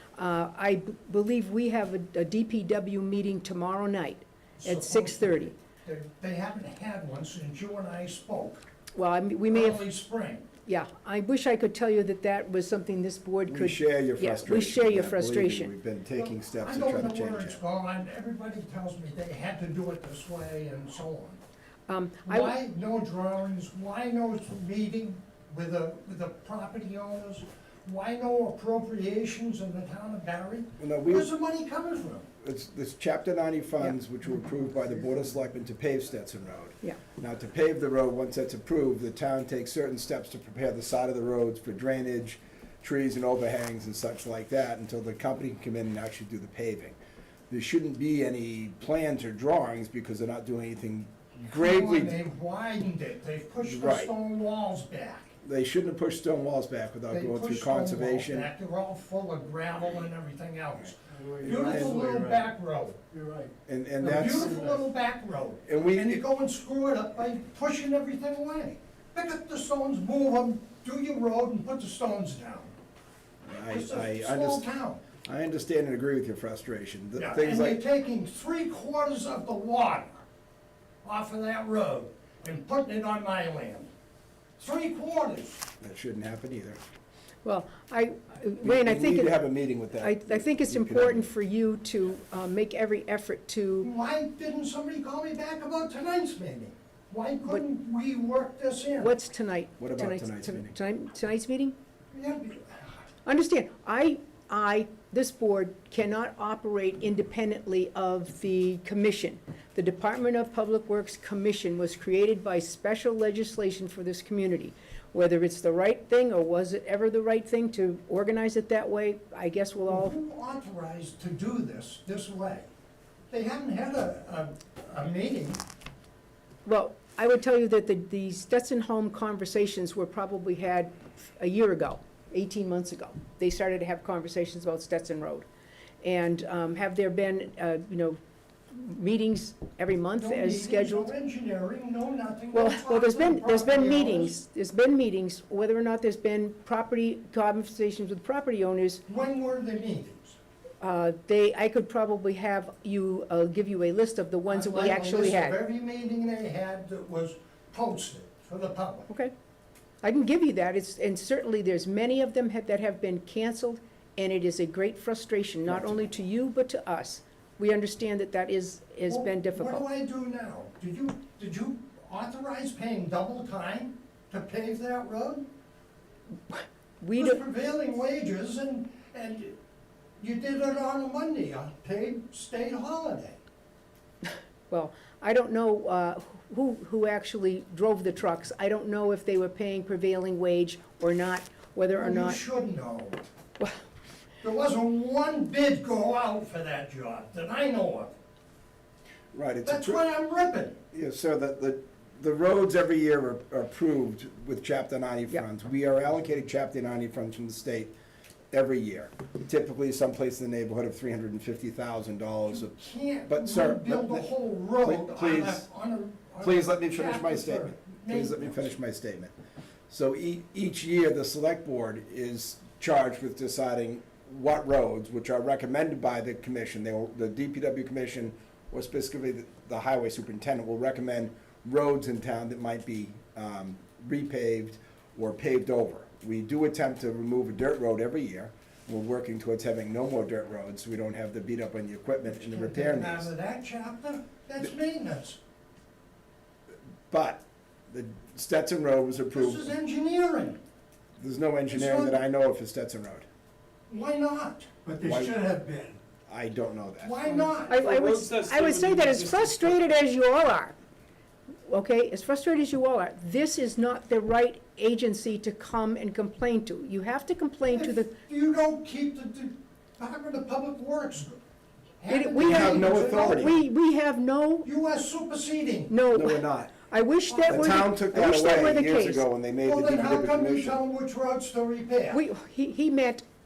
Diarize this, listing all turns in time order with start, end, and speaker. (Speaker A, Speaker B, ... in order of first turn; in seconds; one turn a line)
Speaker A: 0.2-5.5
Speaker B: 4.6-8.7
Speaker A: 8.9-9.8
Speaker B: 9.5-10.5
Speaker A: 10.7-15.7
Speaker C: 13.5-17.6
Speaker B: 16.2-21.4
Speaker A: 21.9-22.5
Speaker B: 22.3-32.3
Speaker C: 30.8-31.3
Speaker C: 32.4-47.0
Speaker C: 47.5-52.2
Speaker B: 51.4-55.3
Speaker C: 53.6-54.1
Speaker C: 55.4-58.5
Speaker B: 57.1-63.0
Speaker D: 61.1-62.5
Speaker C: 61.5-62.2
Speaker D: 63.1-63.5
Speaker C: 63.6-64.6
Speaker B: 64.0-72.7
Speaker D: 64.3-64.8
Speaker C: 65.7-66.2
Speaker C: 73.5-77.8
Speaker B: 73.7-75.0
Speaker B: 77.2-80.2
Speaker B: 81.0-83.9
Speaker B: 84.6-85.7
Speaker C: 85.8-86.8
Speaker A: 87.5-89.4
Speaker C: 88.6-91.3
Speaker A: 89.9-93.9
Speaker B: 93.8-99.1
Speaker A: 99.0-101.8
Speaker C: 99.8-100.8
Speaker B: 102.1-102.9
Speaker A: 103.2-120.2
Speaker B: 119.9-122.7
Speaker B: 123.3-125.6
Speaker A: 126.7-135.5
Speaker A: 136.0-138.2
Speaker A: 138.7-141.1
Speaker B: 140.2-144.4
Speaker A: 142.5-149.0
Speaker B: 149.1-150.4
Speaker A: 150.8-155.6
Speaker B: 154.5-159.1
Speaker A: 160.0-169.8
Speaker C: 165.7-166.1
Speaker B: 169.1-175.5
Speaker A: 176.5-177.4
Speaker B: 177.2-179.6
Speaker B: 180.2-183.4
Speaker A: 184.2-192.4
Speaker B: 192.0-193.2
Speaker B: 194.4-198.2
Speaker C: 199.3-200.0
Speaker B: 199.7-200.8
Speaker C: 200.9-207.9
Speaker C: 208.5-212.7
Speaker B: 212.5-218.8
Speaker C: 213.3-214.3
Speaker C: 214.8-215.6
Speaker C: 216.4-219.3
Speaker C: 219.9-243.3
Speaker B: 242.3-245.4
Speaker C: 247.1-249.7
Speaker B: 249.3-250.6
Speaker C: 251.2-253.3
Speaker B: 251.7-252.2
Speaker B: 253.9-256.0
Speaker C: 255.0-255.4
Speaker C: 256.3-257.5
Speaker B: 257.0-257.8
Speaker D: 257.7-259.8
Speaker A: 257.7-260.8
Speaker A: 261.7-268.1
Speaker B: 267.7-271.4
Speaker B: 272.0-273.4
Speaker A: 272.1-274.7
Speaker C: 272.4-273.6
Speaker B: 274.6-275.9
Speaker A: 275.9-279.2
Speaker C: 276.1-276.7
Speaker B: 277.5-277.7
Speaker C: 277.5-280.8
Speaker B: 279.6-282.2
Speaker A: 282.1-283.2